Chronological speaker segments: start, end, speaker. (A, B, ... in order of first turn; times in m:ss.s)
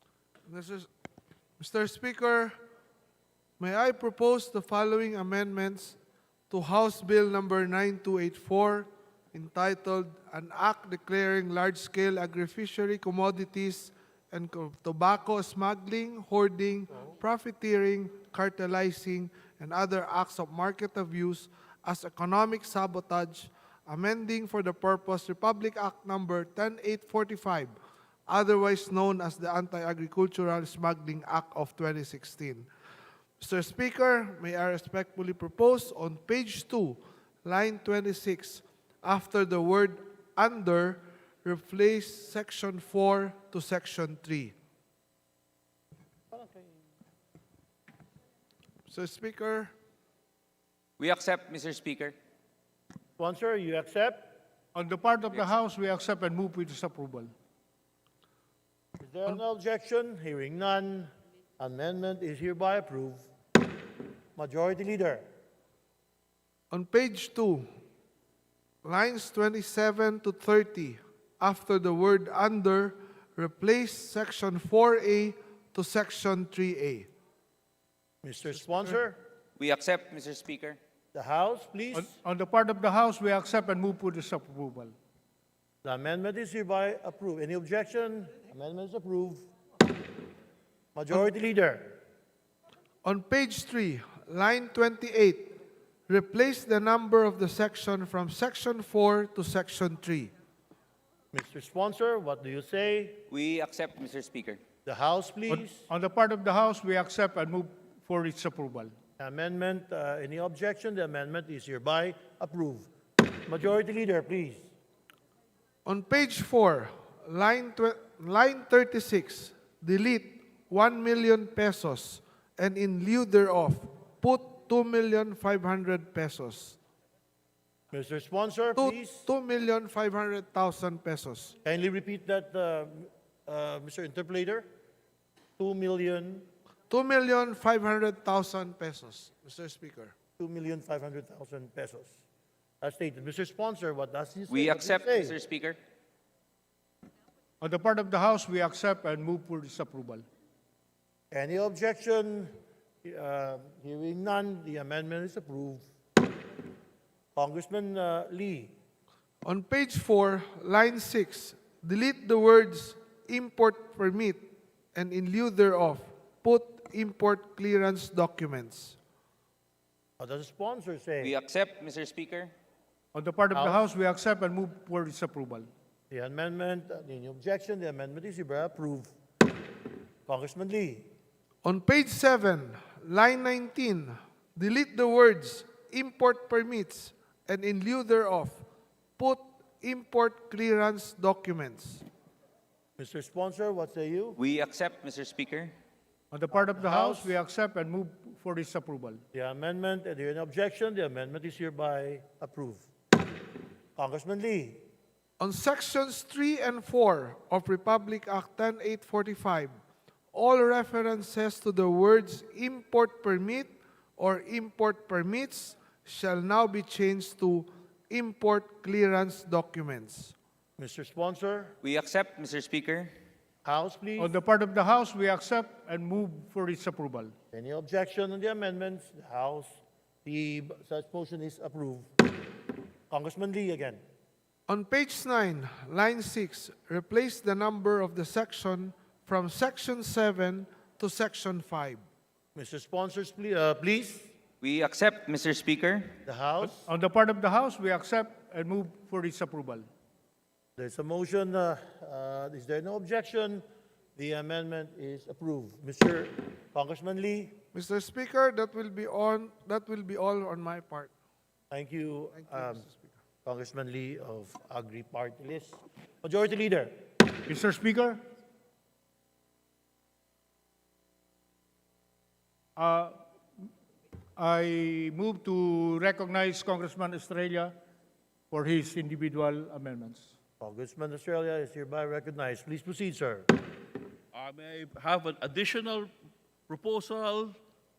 0:00.5-0:00.9 A
0:01.6-0:02.6 A
0:03.6-0:06.0 A
0:06.5-0:27.8 A
0:28.3-0:32.7 A
0:33.4-0:44.6 A
0:46.3-0:46.7 B
0:48.9-0:49.7 A
0:51.0-0:52.2 C
0:53.2-0:54.4 B
0:54.8-0:57.3 D
0:59.0-1:03.3 B
1:04.4-1:05.2 B
1:06.7-1:07.7 A
1:08.8-1:17.1 A
1:18.2-1:19.2 B
1:19.6-1:20.8 C
1:21.1-1:22.1 B
1:22.0-1:24.9 D
1:25.8-1:29.5 B
1:31.0-1:32.0 B
1:33.0-1:35.6 A
1:36.1-1:40.3 A
1:41.3-1:43.2 B
1:43.3-1:44.6 C
1:44.9-1:45.9 B
1:45.5-1:48.9 D
1:49.2-1:52.9 B
1:53.4-1:54.7 B
1:55.9-2:06.8 A
2:07.9-2:09.3 B
2:08.8-2:11.5 A
2:11.6-2:14.7 B
2:15.6-2:16.5 B
2:16.9-2:20.1 A
2:20.4-2:22.2 B
2:22.8-2:25.4 B
2:24.5-2:25.8 C
2:27.6-2:30.2 D
2:31.3-2:35.9 B
2:37.4-2:38.7 B
2:39.4-2:49.0 A
2:50.2-2:51.3 B
2:51.2-2:52.5 C
2:53.1-2:55.7 D
2:53.5-2:53.8 B
2:56.1-2:59.2 B
3:00.3-3:01.1 B
3:01.6-3:08.6 A
3:09.2-3:12.0 A
3:13.0-3:14.4 B
3:14.4-3:15.7 C
3:16.3-3:19.2 D
3:16.5-3:17.4 B
3:19.3-3:22.9 B
3:24.0-3:24.8 B
3:25.4-3:29.8 A
3:30.3-3:40.4 A
3:40.8-3:41.8 B
3:41.8-3:43.1 C
3:43.6-3:44.3 B
3:44.2-3:47.3 D
3:47.5-3:52.1 B
3:53.1-3:54.0 B
3:54.7-4:02.0 A
4:02.6-4:04.3 B
4:04.6-4:06.1 C
4:06.3-4:06.9 B
4:06.6-4:09.9 D
4:10.8-4:13.6 B
4:14.2-4:17.6 B
4:17.7-4:21.1 A
4:21.7-4:22.9 B
4:22.4-4:23.0 A
4:23.4-4:27.0 B
4:27.5-4:28.2 D
4:32.8-4:33.2 D
4:34.4-4:37.8 D
4:38.5-4:40.4 D
4:40.6-4:43.5 B
4:44.3-4:46.1 E
4:46.7-4:47.6 E